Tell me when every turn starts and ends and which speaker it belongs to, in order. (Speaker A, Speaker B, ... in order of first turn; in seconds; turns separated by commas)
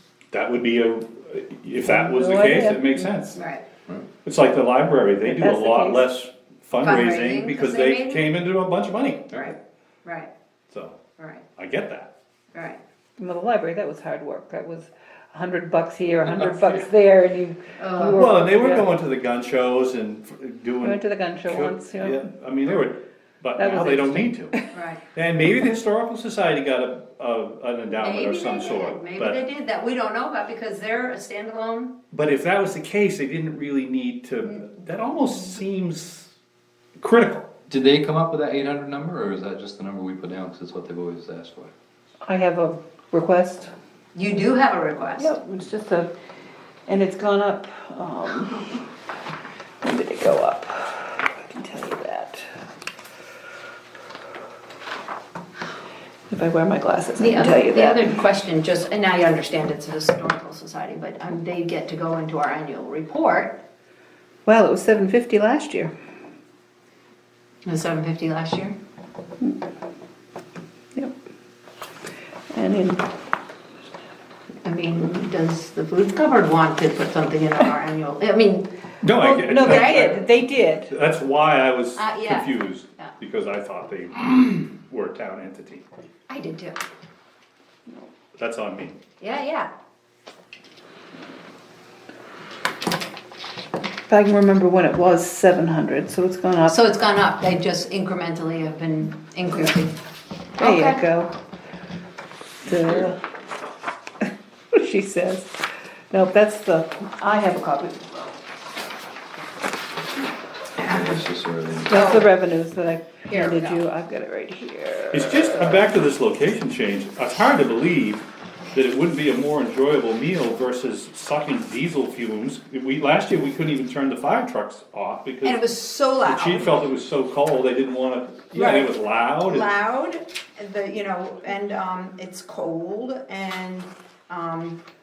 Speaker A: 0.3-3.4, Speaker B: 1.9-3.2, Speaker C: 3.3-3.6, Speaker A: 4.2-9.4, Speaker B: 5.2-6.1, Speaker C: 6.8-8.4, Speaker C: 9.3-10.3, Speaker A: 10.7-11.0, Speaker C: 11.2-11.4, Speaker A: 11.6-12.1, Speaker C: 12.5-12.8, Speaker B: 13.2-18.9, Speaker D: 16.4-16.9, Speaker C: 17.8-18.2, Speaker A: 18.1-29.4, Speaker B: 20.8-22.3, Speaker B: 23.6-24.7, Speaker C: 24.7-25.0, Speaker C: 28.0-31.9, Speaker A: 32.1-36.3, Speaker A: 37.0-37.5, Speaker D: 37.7-41.7, Speaker B: 42.2-43.7, Speaker C: 44.1-45.3, Speaker B: 45.2-46.1, Speaker B: 46.9-48.9, Speaker B: 49.8-52.5, Speaker B: 56.3-58.3, Speaker C: 57.2-63.6, Speaker B: 64.5-65.9, Speaker C: 67.7-68.8, Speaker B: 72.5-73.1, Speaker C: 74.6-78.7, Speaker A: 79.0-85.9, Speaker B: 79.1-80.9, Speaker C: 79.6-80.1, Speaker C: 82.0-83.1, Speaker C: 86.3-86.8, Speaker A: 88.4-89.0, Speaker C: 89.2-89.7, Speaker B: 94.1-96.8, Speaker C: 96.7-100.0, Speaker C: 100.6-101.0, Speaker B: 100.6-101.3, Speaker B: 102.6-103.2, Speaker B: 104.7-108.4, Speaker C: 110.8-111.1, Speaker D: 110.8-112.0, Speaker B: 111.9-115.8, Speaker C: 112.0-112.2, Speaker C: 113.3-113.8, Speaker A: 115.1-125.7, Speaker C: 125.4-126.8, Speaker A: 126.2-129.7, Speaker C: 128.6-134.8